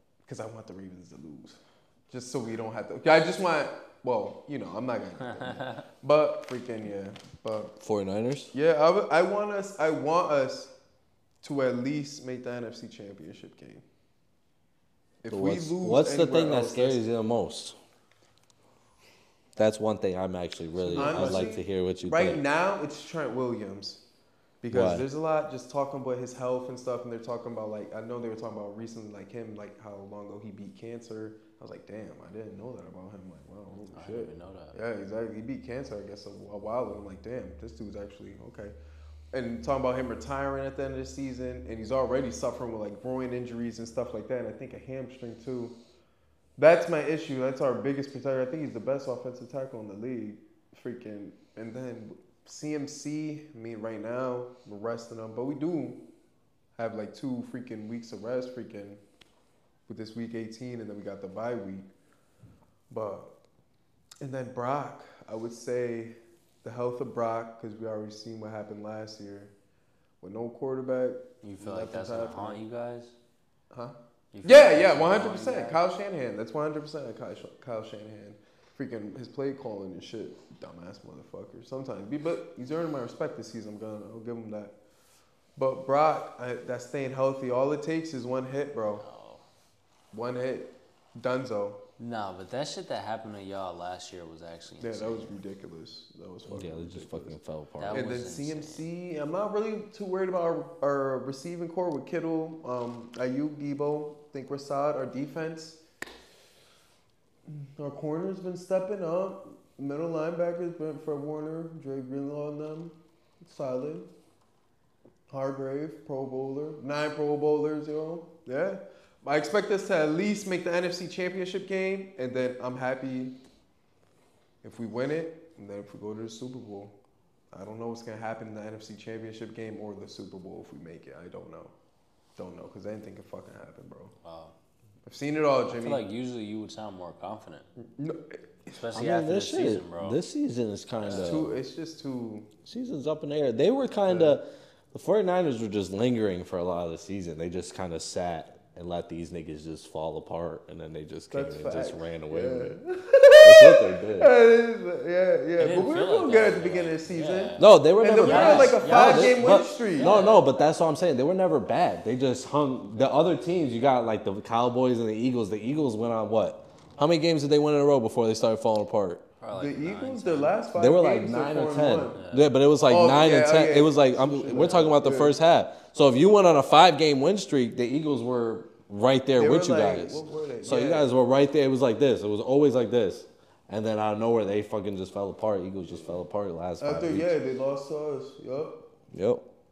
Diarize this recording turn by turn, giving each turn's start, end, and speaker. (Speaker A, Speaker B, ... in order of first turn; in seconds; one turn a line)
Speaker A: 0.3-1.6
Speaker A: 2.1-7.8
Speaker B: 5.3-5.9
Speaker C: 7.8-8.5
Speaker A: 8.5-10.7
Speaker A: 11.4-13.8
Speaker A: 15.2-17.0
Speaker C: 15.3-17.8
Speaker C: 19.6-22.4
Speaker A: 20.8-24.0
Speaker B: 20.9-21.5
Speaker A: 24.6-38.8
Speaker C: 24.7-25.1
Speaker B: 33.8-34.8
Speaker A: 39.3-45.8
Speaker A: 46.6-56.0
Speaker A: 56.8-59.0
Speaker A: 59.9-61.9
Speaker A: 62.9-63.3
Speaker A: 64.2-69.5
Speaker A: 70.2-72.6
Speaker B: 71.4-73.1
Speaker A: 73.7-84.7
Speaker B: 74.3-75.8
Speaker A: 85.6-89.0
Speaker B: 89.0-89.4
Speaker A: 90.1-91.8
Speaker B: 92.0-95.4
Speaker A: 94.8-97.4
Speaker C: 96.5-98.2
Speaker B: 97.8-98.9
Speaker A: 97.9-105.8
Speaker A: 107.5-114.1
Speaker A: 115.3-123.3
Speaker A: 124.6-127.0
Speaker A: 127.5-131.7
Speaker A: 132.4-134.1
Speaker B: 134.2-134.5
Speaker A: 135.1-136.0
Speaker B: 135.7-137.7
Speaker A: 137.8-138.8
Speaker B: 138.8-140.2
Speaker C: 138.9-141.6
Speaker B: 141.0-141.5
Speaker A: 141.1-142.5
Speaker C: 142.7-152.8
Speaker A: 144.1-144.4
Speaker A: 151.3-160.1
Speaker C: 153.4-154.3
Speaker B: 155.6-160.5
Speaker C: 157.6-169.2
Speaker B: 169.4-170.6
Speaker A: 169.5-172.2
Speaker C: 170.8-187.3
Speaker B: 172.2-172.5
Speaker A: 172.9-175.3
Speaker A: 179.4-181.1
Speaker A: 186.8-188.8
Speaker C: 189.1-189.5